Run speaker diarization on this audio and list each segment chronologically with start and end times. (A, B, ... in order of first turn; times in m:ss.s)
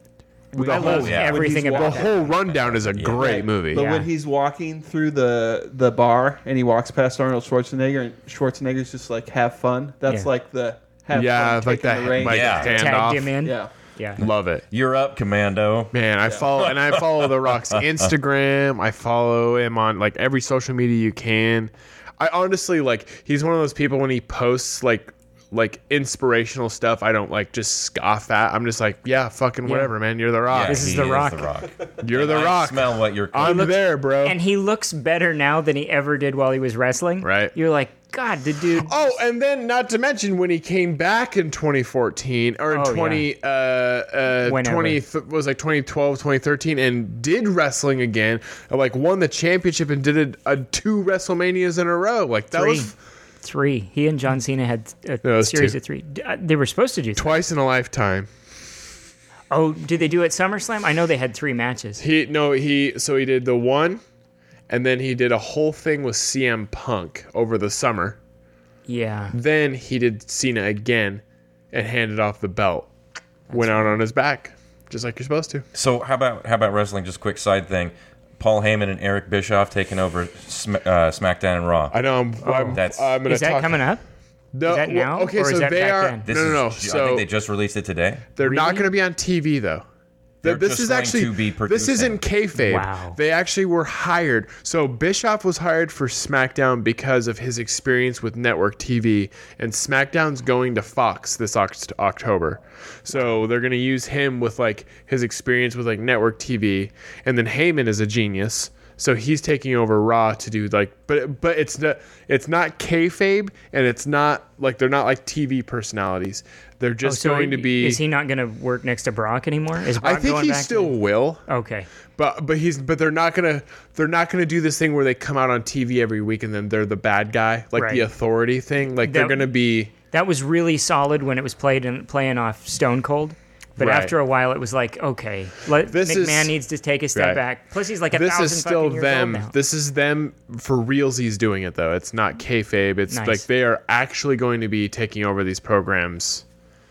0:00.5-0:02.2 A
0:00.6-0:04.0 B
0:00.6-0:02.1 C
0:00.8-0:01.4 D
0:02.1-0:03.2 D
0:03.2-0:12.7 A
0:03.7-0:04.1 C
0:11.1-0:13.4 B
0:12.2-0:12.8 D
0:12.6-0:14.2 C
0:13.4-0:13.7 A
0:14.2-0:18.1 D
0:14.2-0:14.6 B
0:15.9-0:31.1 B
0:29.6-0:29.9 C
0:30.5-0:33.8 D
0:30.6-0:31.5 C
0:32.0-0:34.4 B
0:33.4-0:38.9 C
0:37.2-0:37.5 B
0:38.8-0:53.0 B
0:42.7-0:43.3 C
0:44.4-0:45.0 C
0:52.5-0:57.4 C
0:55.2-0:55.8 B
0:57.2-0:58.3 B
0:59.5-1:02.0 C
1:02.0-1:04.0 B
1:04.7-1:08.2 B
1:08.9-1:09.4 C
1:09.3-1:12.9 B
1:13.5-1:14.0 C
1:13.5-1:15.6 B
1:15.7-1:22.0 D
1:21.9-1:23.9 B
1:22.4-1:24.0 C
1:22.8-1:23.2 D
1:24.5-1:27.2 B
1:24.6-1:26.3 C
1:26.2-1:28.3 D
1:28.4-1:29.8 B
1:28.4-1:28.9 C
1:30.4-1:32.2 D
1:30.4-1:58.0 B
1:32.6-1:33.2 C
1:43.1-1:43.4 C
1:57.0-2:01.9 C
2:00.0-2:01.4 B
2:02.2-2:09.9 B
2:07.8-2:08.1 C
2:09.0-2:19.5 C
2:13.8-2:14.2 B
2:15.9-2:16.5 B
2:17.2-2:17.4 B
2:18.1-2:26.4 B
2:23.1-2:23.4 C